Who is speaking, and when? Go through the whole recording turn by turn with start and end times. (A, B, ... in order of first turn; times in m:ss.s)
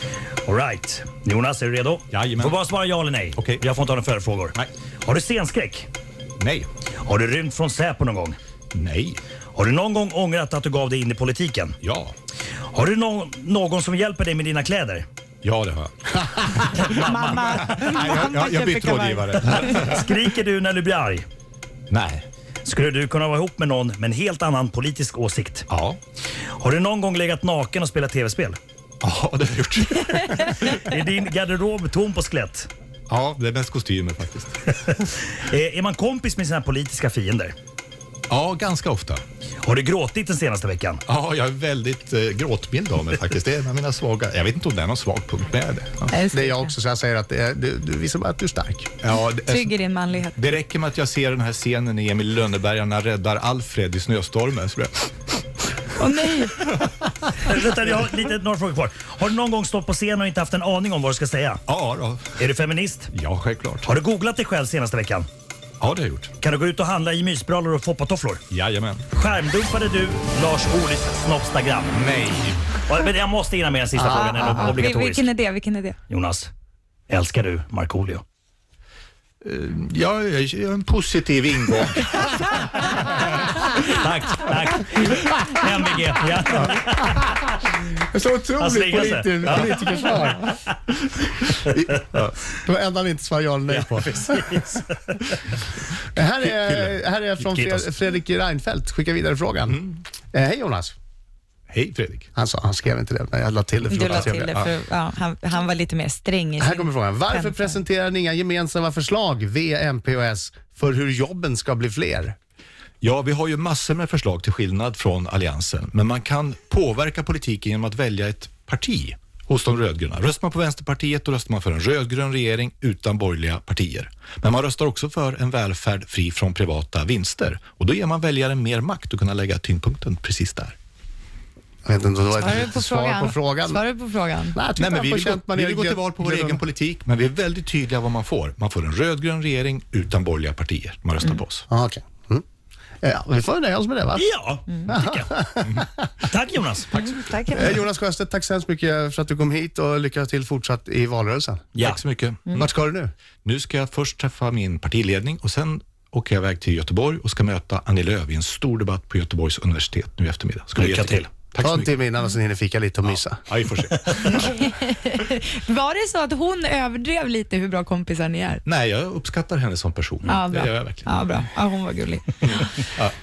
0:00.4-0:05.9 A
0:02.1-0:02.6 B
0:03.3-0:03.6 B
0:06.4-0:06.7 B
0:07.0-0:08.4 A
0:08.7-0:09.2 B
0:09.5-0:11.8 A
0:11.8-0:12.1 B
0:12.7-0:15.0 A
0:15.4-0:20.1 B
0:16.7-0:17.5 A
0:16.8-0:19.8 C
0:19.6-0:21.3 A
0:21.9-0:22.2 B
0:22.6-0:25.6 A
0:25.7-0:26.0 B
0:26.5-0:28.6 A
0:29.0-0:30.8 B
0:30.5-0:32.7 A
0:33.1-0:34.8 B
0:34.9-0:37.5 A
0:38.3-0:39.2 B
0:39.6-0:41.0 A
0:41.0-0:46.1 B
0:46.1-0:46.7 C
0:46.3-0:48.9 D
0:49.0-0:55.1 B
0:49.4-0:50.4 C
0:56.0-0:56.7 C
0:57.4-1:01.6 A
1:01.7-1:02.4 B
1:02.4-1:03.1 A
1:03.1-1:03.9 B
1:03.8-1:05.3 A
1:05.8-1:06.3 B
1:06.4-1:08.4 A
1:08.5-1:09.1 B
1:09.1-1:12.0 A
1:11.9-1:12.7 B
1:12.9-1:15.3 A
1:13.9-1:14.7 D
1:14.0-1:16.0 C
1:16.1-1:16.5 A
1:17.1-1:18.2 A
1:19.4-1:22.5 B
1:23.6-1:27.3 A
1:27.8-1:30.5 D
1:28.6-1:30.4 A
1:32.5-1:34.7 D
1:33.7-1:35.5 A
1:36.1-1:40.9 D
1:37.4-1:37.9 A
1:41.7-1:42.3 B
1:42.4-1:44.6 D
1:43.9-1:47.8 C
1:44.0-1:44.7 B
1:46.6-1:52.4 D
1:53.0-2:10.8 B
2:11.8-2:13.8 D
2:12.4-2:14.6 C
2:14.5-2:16.6 D
2:14.8-2:21.7 B
2:21.7-2:22.4 D
2:23.0-2:24.2 D
2:24.1-2:25.3 A
2:24.9-2:25.9 D
2:26.2-2:26.9 A
2:26.9-2:27.8 C
2:26.9-2:27.6 B
2:27.5-2:31.6 D
2:31.8-2:32.0 A
2:31.8-2:32.8 B
2:32.5-2:33.1 D
2:33.4-2:41.9 B
2:40.8-2:41.3 A
2:41.6-2:43.4 D
2:43.0-2:44.5 B
2:44.2-2:48.6 C
2:48.6-2:51.1 B
2:50.2-2:52.8 C
2:52.4-2:53.1 B